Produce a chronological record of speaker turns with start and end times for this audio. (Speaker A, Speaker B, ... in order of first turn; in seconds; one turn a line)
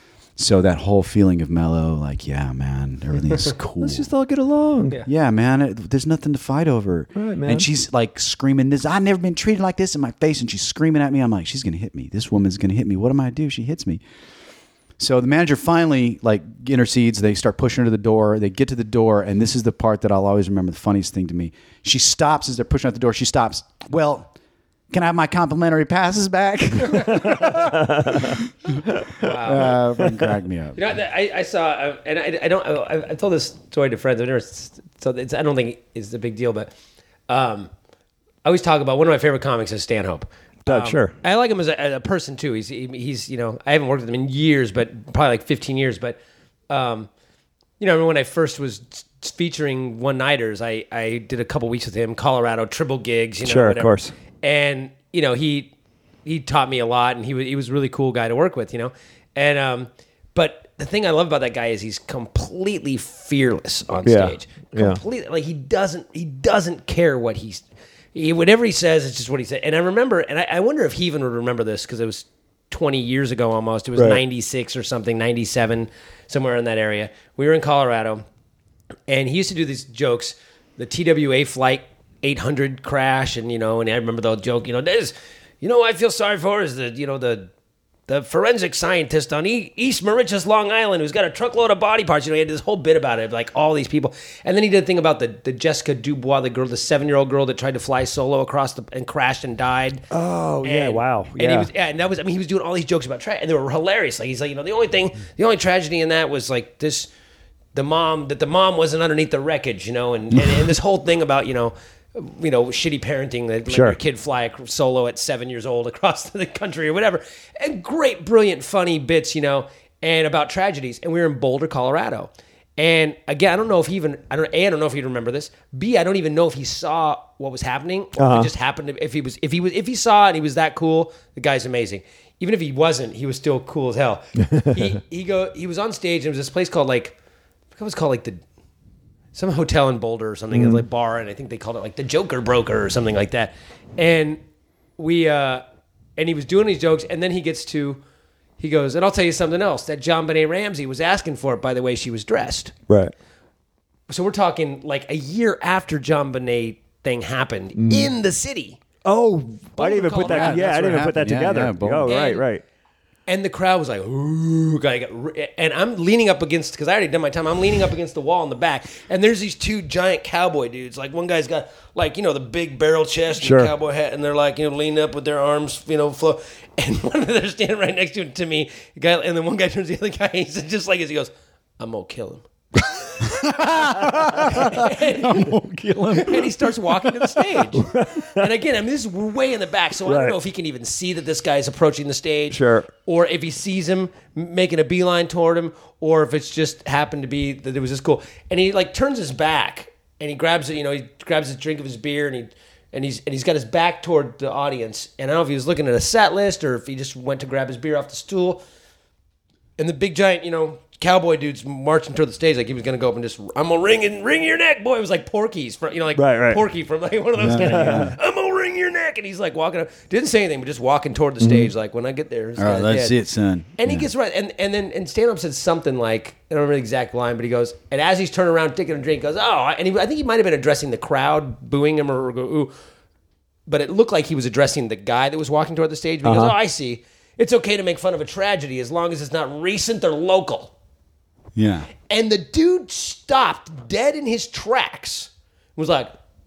Speaker A: 0.3-4.1
Speaker B: 3.8-5.0
Speaker A: 5.0-14.0
Speaker B: 7.2-7.7
Speaker A: 15.0-24.3
Speaker A: 24.9-28.7
Speaker C: 27.0-27.3
Speaker B: 27.5-28.3
Speaker C: 29.2-29.8
Speaker A: 29.4-30.8
Speaker C: 30.7-36.7
Speaker C: 37.3-37.7
Speaker C: 38.4-47.1
Speaker B: 40.6-41.1
Speaker C: 47.8-55.7
Speaker B: 53.4-54.1
Speaker C: 56.2-78.2
Speaker B: 64.0-65.0
Speaker B: 74.0-74.2
Speaker C: 79.1-87.5
Speaker C: 88.1-100.1
Speaker B: 100.1-101.7
Speaker C: 100.6-107.1
Speaker C: 107.7-137.2
Speaker B: 113.7-114.0
Speaker B: 128.2-128.5
Speaker B: 134.5-134.7
Speaker C: 137.7-138.4
Speaker C: 139.3-144.4
Speaker B: 140.5-140.8
Speaker C: 145.0-145.6
Speaker C: 146.2-148.0
Speaker C: 148.6-152.7
Speaker C: 154.1-158.8
Speaker B: 157.8-158.1
Speaker B: 159.0-162.6
Speaker C: 159.8-160.7
Speaker A: 160.2-162.1
Speaker C: 162.1-162.4
Speaker C: 163.3-185.5
Speaker B: 173.4-173.7
Speaker A: 183.2-187.2
Speaker C: 186.1-208.6
Speaker B: 187.8-188.4
Speaker B: 190.1-190.4
Speaker B: 192.5-192.9
Speaker C: 209.8-223.2
Speaker B: 216.2-216.6
Speaker A: 217.4-218.1
Speaker B: 217.6-218.1
Speaker B: 221.4-221.7
Speaker A: 222.6-224.1
Speaker C: 223.8-232.7
Speaker C: 233.7-240.7
Speaker B: 236.2-236.5
Speaker A: 241.5-241.9
Speaker C: 242.1-246.1